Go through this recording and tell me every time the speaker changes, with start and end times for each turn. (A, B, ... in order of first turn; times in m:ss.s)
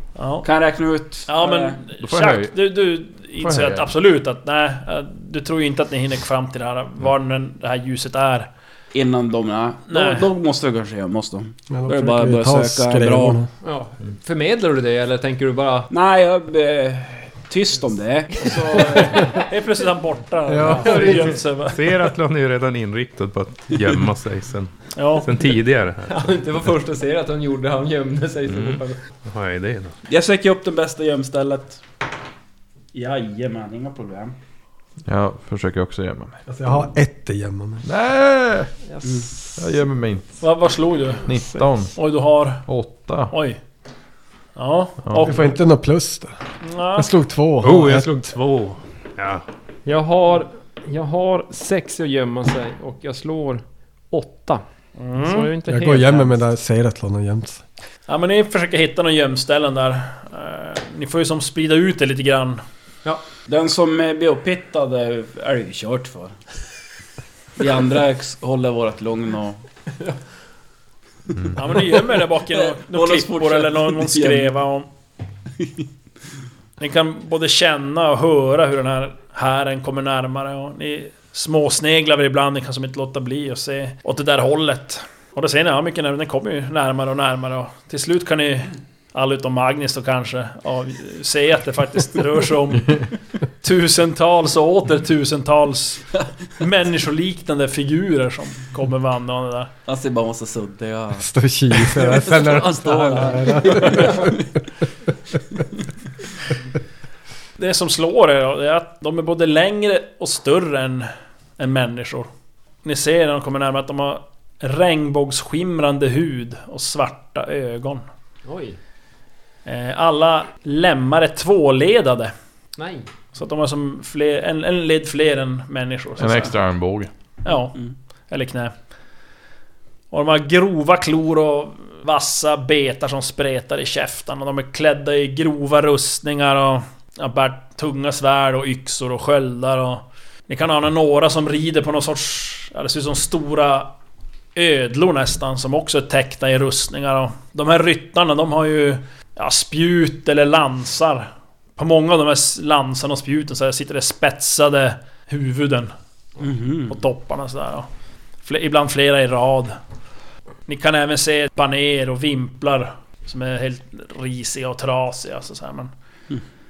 0:00.2-0:00.5 A
0:00.4-0:01.8 B
0:01.3-0:08.5 A
0:02.0-0:02.6 C
0:03.4-0:03.9 C
0:08.9-0:13.4 B
0:09.9-0:10.3 A
0:11.7-0:13.5 D
0:13.6-0:15.9 E
0:15.9-0:19.4 B
0:18.7-0:21.8 A
0:20.5-0:21.4 D
0:20.7-0:21.2 E
0:20.9-0:26.3 F
0:24.9-0:25.3 A
0:26.1-0:29.0 E
0:29.2-0:29.9 F
0:30.1-0:31.8 B
0:32.9-0:34.3 B
0:35.0-0:36.4 C
0:36.5-0:37.8 D
0:37.8-0:38.7 C
0:38.9-0:39.3 E
0:39.6-0:40.4 C
0:40.4-0:41.3 A
0:41.2-0:41.9 C
0:41.9-0:42.7 A
0:42.6-0:43.3 C
0:43.3-0:43.6 A
0:44.6-0:45.6 A
0:45.0-0:45.3 C
0:45.2-0:46.4 D
0:46.6-0:47.1 A
0:46.9-0:48.3 D
0:47.6-0:49.4 F
0:49.8-0:54.6 E
0:55.0-0:55.5 A
0:55.2-0:56.4 E
0:55.7-0:57.6 D
0:58.1-1:02.6 A
1:03.5-1:06.3 B
1:07.6-1:09.6 B
1:11.5-1:14.9 A
1:12.0-1:14.5 B
1:16.8-1:33.1 A
1:33.6-1:39.7 A
1:39.9-1:44.4 B
1:41.2-1:44.3 D
1:47.6-1:52.3 A
1:52.8-1:58.0 A
1:58.4-1:58.8 E
1:59.6-2:02.3 A
2:02.8-2:03.1 E
2:03.3-2:06.6 A
2:06.2-2:07.1 C
2:07.4-2:07.8 A
2:08.3-2:08.7 A
2:10.1-2:23.9 A
2:24.5-2:35.9 A
2:36.4-2:37.0 B
2:36.9-2:37.9 A
2:38.4-2:39.8 A
2:40.7-2:45.9 A